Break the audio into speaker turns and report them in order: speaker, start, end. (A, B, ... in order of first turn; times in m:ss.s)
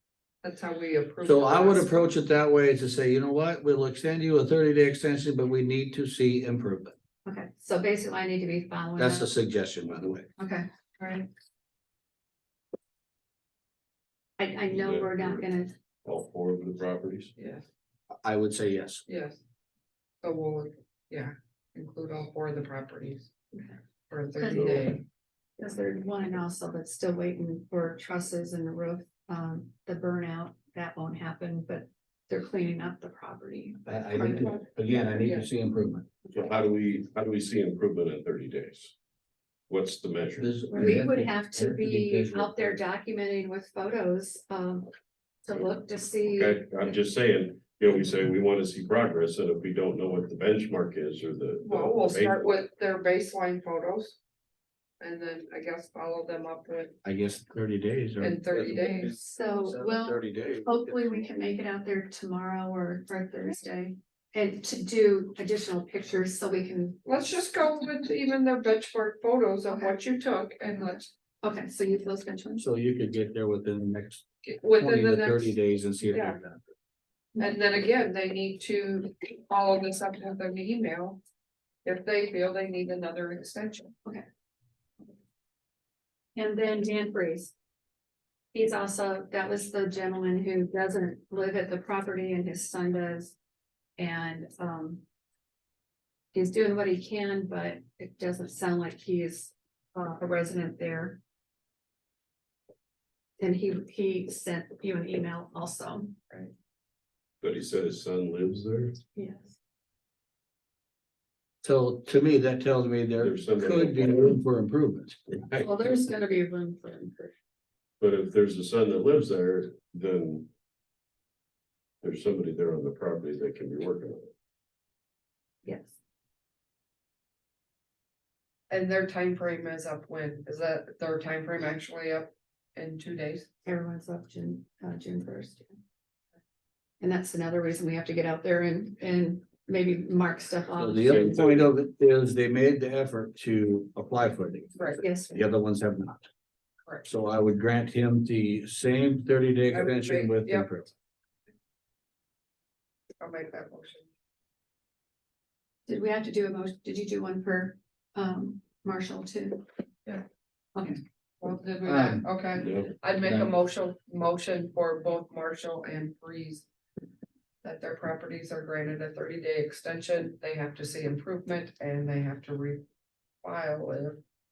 0:00.4-0:02.0 A
0:01.2-0:06.9 B
0:07.2-0:09.3 C
0:09.0-0:10.3 B
0:10.4-0:11.3 C
0:14.4-0:15.7 C
0:14.7-0:15.5 D
0:16.0-0:17.3 D
0:17.4-0:17.6 A
0:18.2-0:19.0 B
0:19.1-0:19.4 A
0:20.2-0:23.3 A
0:23.5-0:23.8 C
0:24.1-0:25.0 A
0:24.4-0:24.7 C
0:24.5-0:24.9 D
0:25.6-0:34.6 C
0:33.8-0:36.2 B
0:34.4-0:35.5 A
0:36.3-0:38.9 D
0:39.7-0:40.5 D
0:40.4-0:42.8 B
0:40.7-0:44.9 C
0:45.4-0:46.6 C
0:46.3-0:52.4 D
0:51.6-0:54.2 A
0:55.0-0:57.0 A
0:57.0-1:00.8 B
0:58.2-0:59.1 A
0:59.0-1:07.0 C
1:07.0-1:11.1 A
1:11.4-1:12.6 C
1:12.6-1:14.2 B
1:14.4-1:15.6 A
1:14.8-1:16.6 B
1:16.1-1:16.4 A
1:17.4-1:21.2 A
1:21.8-1:23.9 A
1:26.3-1:27.5 C
1:28.5-1:33.4 C
1:34.0-1:35.0 C
1:36.3-1:41.2 C
1:43.4-1:46.2 C
1:47.4-1:49.0 D
1:49.1-1:49.6 C
1:51.6-1:55.2 B
1:53.2-1:54.4 D
1:55.3-1:55.6 D
1:55.5-1:57.3 C
1:58.0-2:00.5 D
2:02.0-2:04.3 D
2:05.6-2:05.9 C
2:08.7-2:13.5 A
2:13.6-2:15.8 C
2:17.0-2:21.3 C
2:20.8-2:26.3 B
2:21.1-2:21.6 D
2:24.8-2:25.0 A
2:25.0-2:25.4 C
2:27.0-2:30.9 B
2:29.7-2:30.7 A
2:33.2-2:34.1 A
2:35.9-2:39.6 C
2:41.4-2:46.6 A
2:41.8-2:42.2 B
2:42.6-2:42.9 D
2:47.6-2:52.8 A
2:53.4-2:54.2 A